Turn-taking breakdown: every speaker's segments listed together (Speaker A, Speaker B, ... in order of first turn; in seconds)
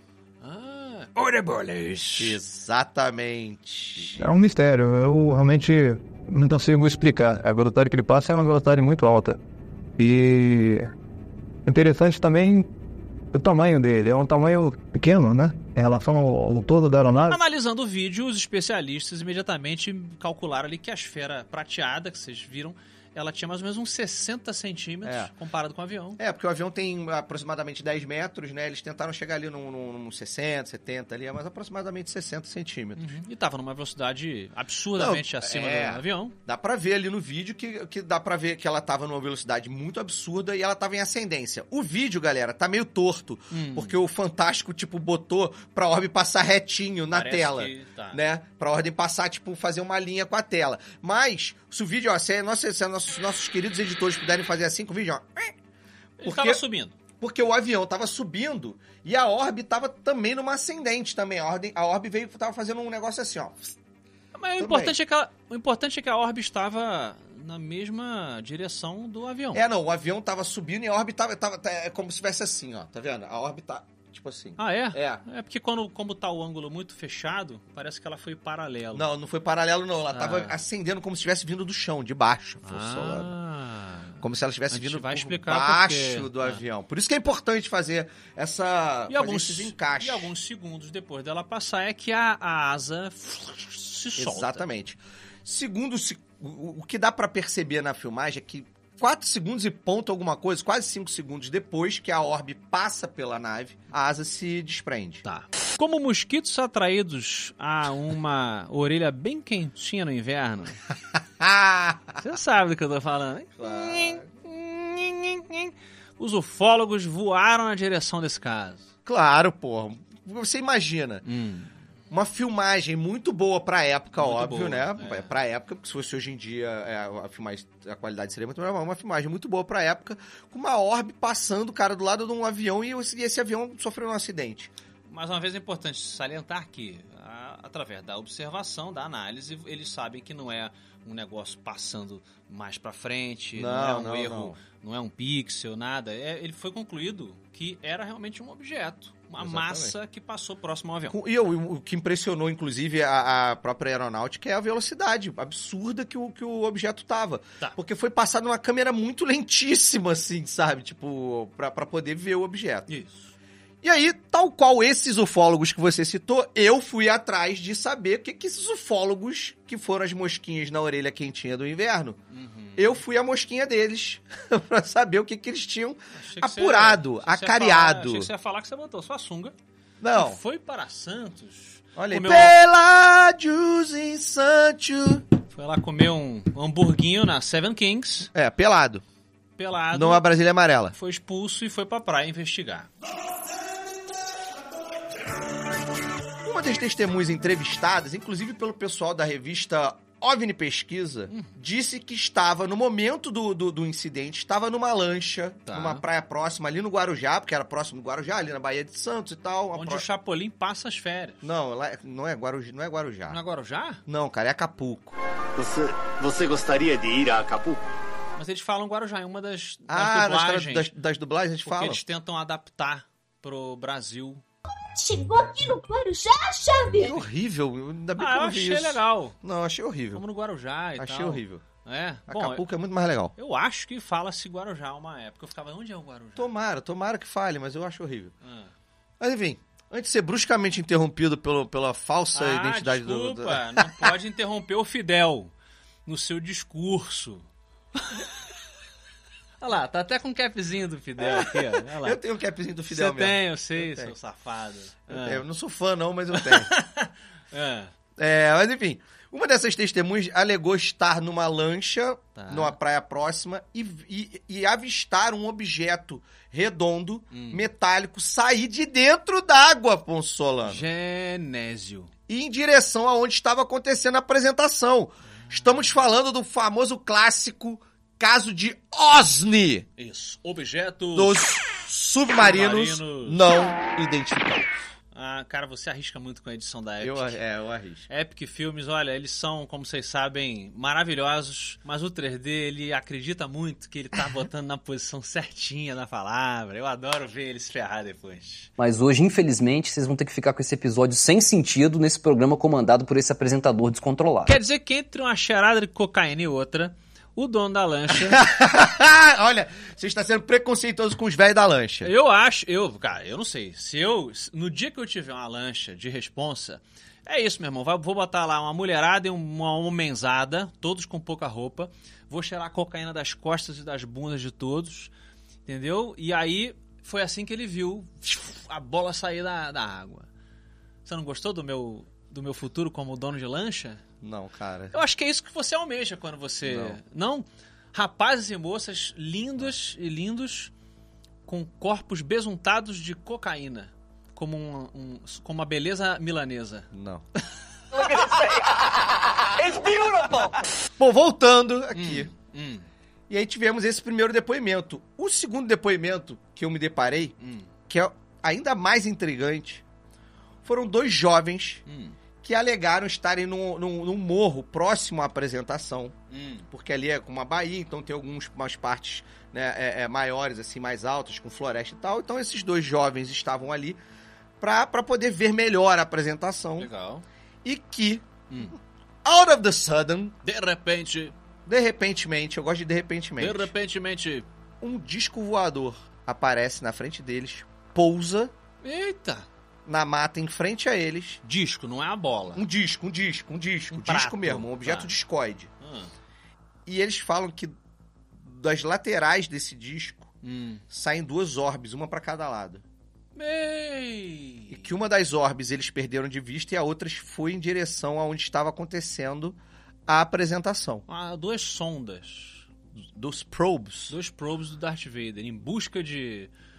Speaker A: 0.4-2.4, 17.3-26.2, 33.0-36.4, 43.5-44.0, 47.1-48.2, 56.2-57.0, 64.3-69.6, 74.6-79.0, 80.1-80.6, 82.6-84.2, 84.7-86.6, 89.1-94.7, 105.2-110.8, 112.2-118.9, 121.2-121.7, 124.2-125.3, 135.1-151.2, 162.9-163.3, 172.3-173.0, 176.1-179.5, 180.2-182.6, 185.5-188.3, 189.6-190.2, 190.9-192.9, 205.7-206.0, 209.7-211.4, 213.3-214.0, 218.4-220.9, 221.6-224.4, 228.2-229.4, 230.2-232.7, 233.4-236.5, 238.4-238.7, 242.3-245.5, 246.1-247.4, 248.0-248.3, 249.6-252.2, 252.9-255.4, 256.3-257.9, 262.4-262.8, 267.3-267.6, 270.6-272.1, 280.0-281.4, 282.4-283.4, 285.1-287.4, 288.1-298.7, 304.4-308.4, 312.1-325.1, 325.7-330.3, 331.1-334.0, 334.9-340.7, 341.5-346.9, 351.9-352.9, 357.4-357.7, 361.9-362.2, 366.3-366.7, 376.8-377.2, 378.5-378.8, 380.4-381.4, 383.4-384.5, 388.8-389.5, 391.4-392.6, 393.9-395.1, 395.8-396.1, 400.4-400.8, 403.4-404.9, 411.1-412.7, 414.1-416.5
Speaker B: 2.2-4.3, 25.1-25.3, 26.2-33.2, 35.0-55.5, 56.2-56.6, 57.2-63.8, 64.6-65.0, 69.5-75.2, 78.9-83.3, 84.2-90.3, 94.2-105.2, 111.4-112.2, 113.6-114.3, 119.1-121.2, 122.1-134.7, 143.6-144.6, 149.4-149.9, 151.1-162.9, 163.8-172.2, 172.8-178.3, 180.0-180.4, 182.0-185.2, 188.3-189.0, 189.9-190.9, 196.4-210.1, 211.4-213.4, 214.1-215.2, 219.9-222.0, 227.0-230.2, 231.0-231.7, 232.3-233.3, 236.4-238.3, 239.2-244.2, 251.2-254.1, 255.1-256.7, 258.2-270.9, 272.3-279.9, 281.1-284.8, 287.0-288.1, 308.1-312.1, 334.2-335.0, 336.7-337.0, 346.9-347.2, 351.0-352.3, 353.3-357.4, 357.9-359.8, 360.6-361.8, 362.4-366.2, 366.7-374.0, 374.6-376.9, 377.6-380.4, 381.7-383.7, 384.8-388.5, 389.9-391.4, 392.5-395.7, 396.9-397.7, 398.3-400.3, 400.9-402.8, 404.7-411.1, 413.1-414.2
Speaker C: 4.2-9.4, 10.0-10.9, 11.7-12.7, 13.3-17.4
Speaker D: 215.6-217.8
Speaker E: 224.9-227.2
Speaker F: 298.8-304.6